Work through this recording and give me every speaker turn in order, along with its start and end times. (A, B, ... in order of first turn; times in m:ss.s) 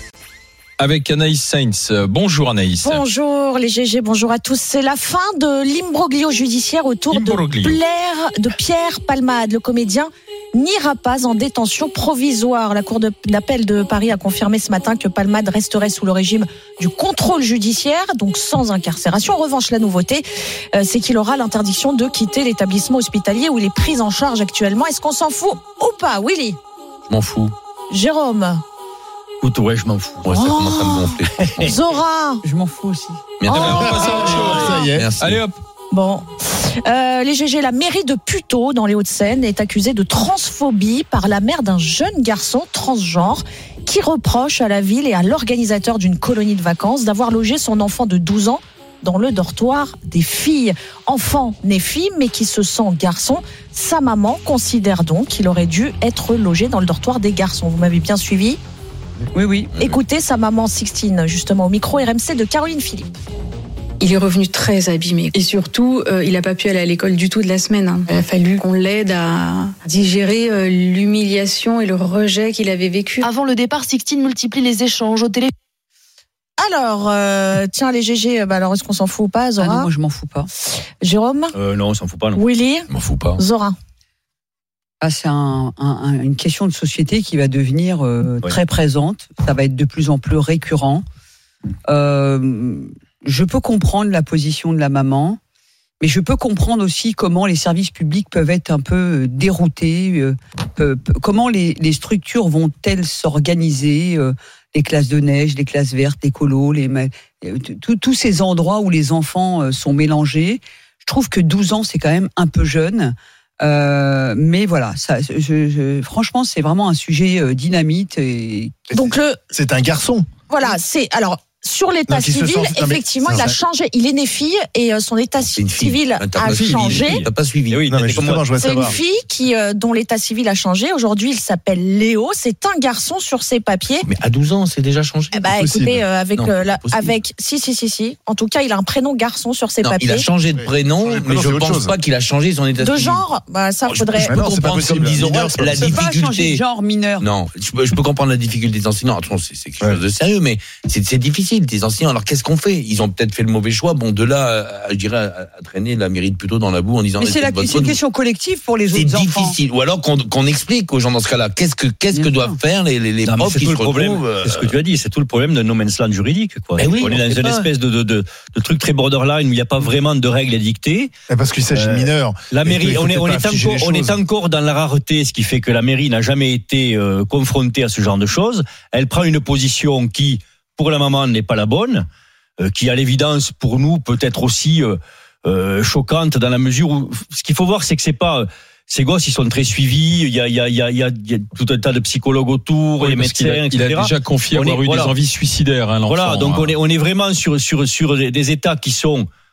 0:00.8-0:03.0 A
0:02.8-0:26.6 B
0:07.1-0:07.8 A
0:27.1-0:27.5 C
0:27.9-0:28.6 B
0:29.4-0:30.5 D
0:30.2-0:31.8 C
0:30.3-0:32.4 B
0:31.4-0:31.7 D
0:32.4-0:33.3 E
0:33.4-0:34.2 C
0:33.5-0:34.9 B
0:33.5-0:35.6 A
0:33.6-0:35.1 F
0:34.9-0:35.4 C
0:35.9-0:58.6 B
0:59.3-0:59.8 E
0:59.8-1:03.1 B
1:04.0-1:13.3 G
1:13.2-1:15.5 H
1:16.6-1:19.9 B
1:19.6-1:20.5 E
1:21.0-1:21.5 B
1:21.5-1:22.4 D
1:22.3-1:23.7 B
1:22.9-1:23.4 C
1:25.0-1:31.0 E
1:31.9-1:35.4 E
1:36.0-1:58.9 E
1:58.9-1:59.4 B
1:58.9-2:00.3 F
2:00.5-2:07.2 B
2:02.1-2:03.6 F
2:05.5-2:08.3 C
2:06.4-2:08.9 D
2:07.9-2:09.0 F
2:08.6-2:14.1 B
2:14.0-2:15.4 C
2:15.3-2:20.2 B
2:15.4-2:16.0 F
2:16.4-2:17.1 C
2:19.8-2:23.2 C
2:20.6-2:21.9 F
2:22.8-2:24.4 B
2:23.9-2:26.6 C
2:24.1-2:25.8 F
2:25.7-2:27.3 E
2:27.2-2:38.0 C
2:37.2-2:39.6 E
2:38.9-2:44.7 C
2:42.1-2:42.6 E
2:43.2-2:51.1 D
2:46.8-2:47.7 C
2:51.3-2:54.2 F
2:51.7-3:02.0 D
3:02.6-3:15.2 D
3:13.0-3:16.7 A
3:16.0-3:19.3 D